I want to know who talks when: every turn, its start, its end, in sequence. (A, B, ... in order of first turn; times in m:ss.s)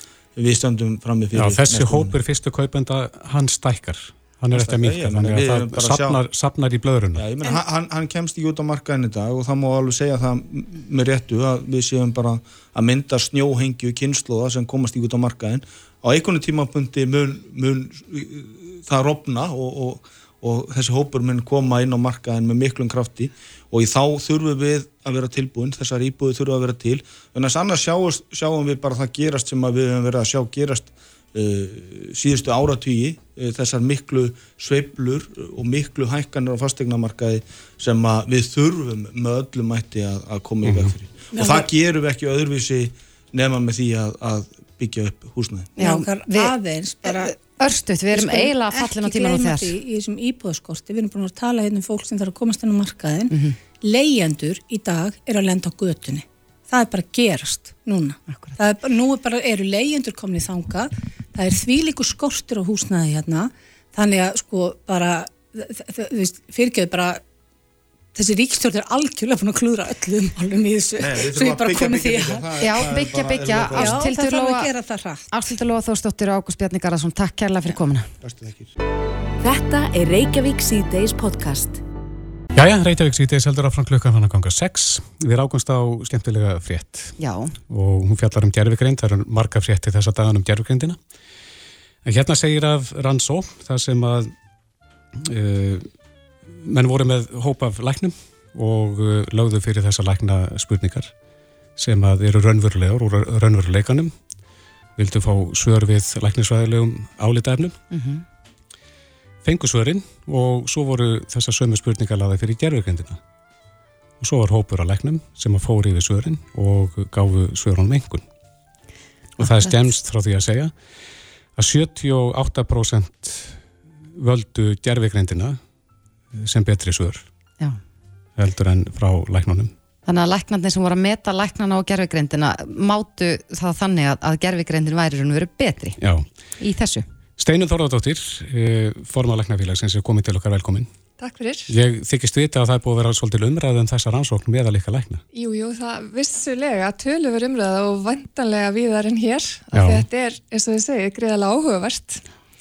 0:00.4-0:02.2 A
0:01.3-0:07.2 B
0:04.5-0:06.2 A
0:07.1-0:45.7 A
0:40.6-0:40.9 B
0:41.4-0:41.6 C
0:45.8-0:46.5 D
0:45.8-0:47.4 C
0:47.0-0:49.8 D
0:48.1-1:07.2 C
0:53.3-0:53.6 D
1:08.1-1:12.4 C
1:11.0-1:14.1 A
1:12.6-1:14.7 D
1:13.7-1:15.3 C
1:15.3-1:18.1 D
1:18.2-1:18.7 A
1:19.4-1:21.8 E
1:22.5-1:27.1 B
1:27.2-1:27.5 D
1:27.7-1:31.0 B
1:32.0-1:34.3 B
1:35.2-1:35.9 B
1:36.6-1:41.1 B
1:41.8-1:44.1 B
1:45.0-1:47.8 B
1:47.9-1:48.2 D
1:49.4-1:53.2 B
1:54.2-1:58.2 B
1:59.4-2:00.8 B
1:59.4-1:59.9 D
2:01.6-2:03.6 B
2:04.1-2:05.6 B
2:06.3-2:07.2 B
2:08.4-2:09.7 B
2:10.0-2:16.0 D
2:16.0-2:16.2 B
2:16.6-2:17.0 D
2:17.4-2:20.9 B
2:21.2-2:21.7 F
2:21.7-2:25.2 B
2:25.3-2:32.2 F
2:29.7-2:30.1 B